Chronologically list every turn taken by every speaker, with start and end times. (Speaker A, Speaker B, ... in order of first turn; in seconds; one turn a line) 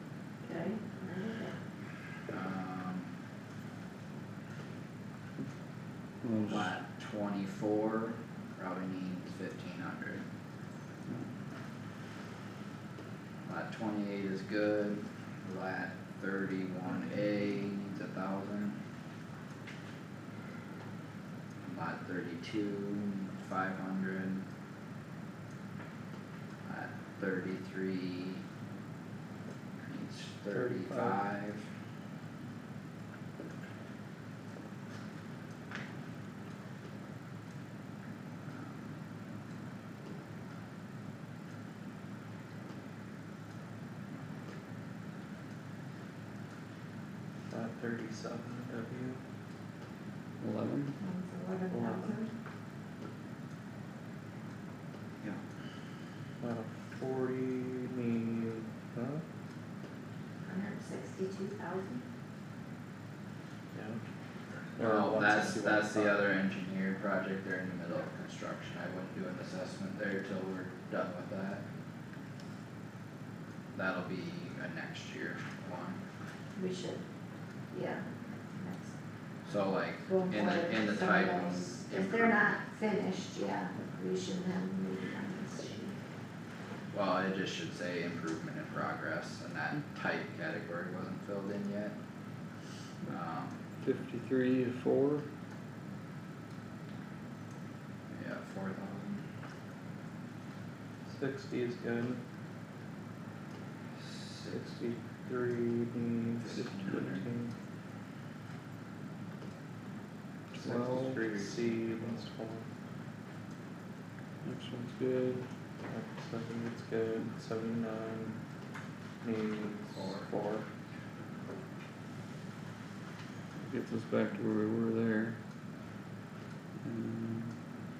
Speaker A: 0.4-1.6
Speaker B: 2.3-3.1
Speaker C: 6.2-6.7
Speaker B: 6.4-10.3
Speaker B: 13.4-18.8
Speaker B: 21.6-24.5
Speaker B: 26.6-28.4
Speaker B: 29.8-31.7
Speaker D: 30.5-31.2
Speaker D: 47.5-49.2
Speaker C: 50.4-51.0
Speaker A: 51.0-52.3
Speaker D: 51.7-52.2
Speaker D: 56.4-59.2
Speaker A: 60.4-62.0
Speaker D: 63.7-64.0
Speaker D: 64.8-66.3
Speaker B: 64.8-71.6
Speaker B: 73.7-76.0
Speaker A: 76.6-77.1
Speaker A: 77.7-79.0
Speaker B: 79.5-82.6
Speaker A: 80.1-86.0
Speaker B: 86.9-92.0
Speaker B: 93.1-93.6
Speaker C: 93.8-95.3
Speaker B: 98.1-99.3
Speaker D: 101.1-102.2
Speaker B: 104.0-104.6
Speaker D: 104.5-107.5
Speaker B: 106.3-107.3
Speaker C: 106.6-107.2
Speaker C: 110.5-112.0
Speaker D: 110.6-112.7
Speaker C: 114.4-115.5
Speaker D: 115.9-118.4
Speaker D: 119.2-120.7
Speaker B: 120.0-120.3
Speaker C: 123.6-125.4
Speaker C: 126.8-127.6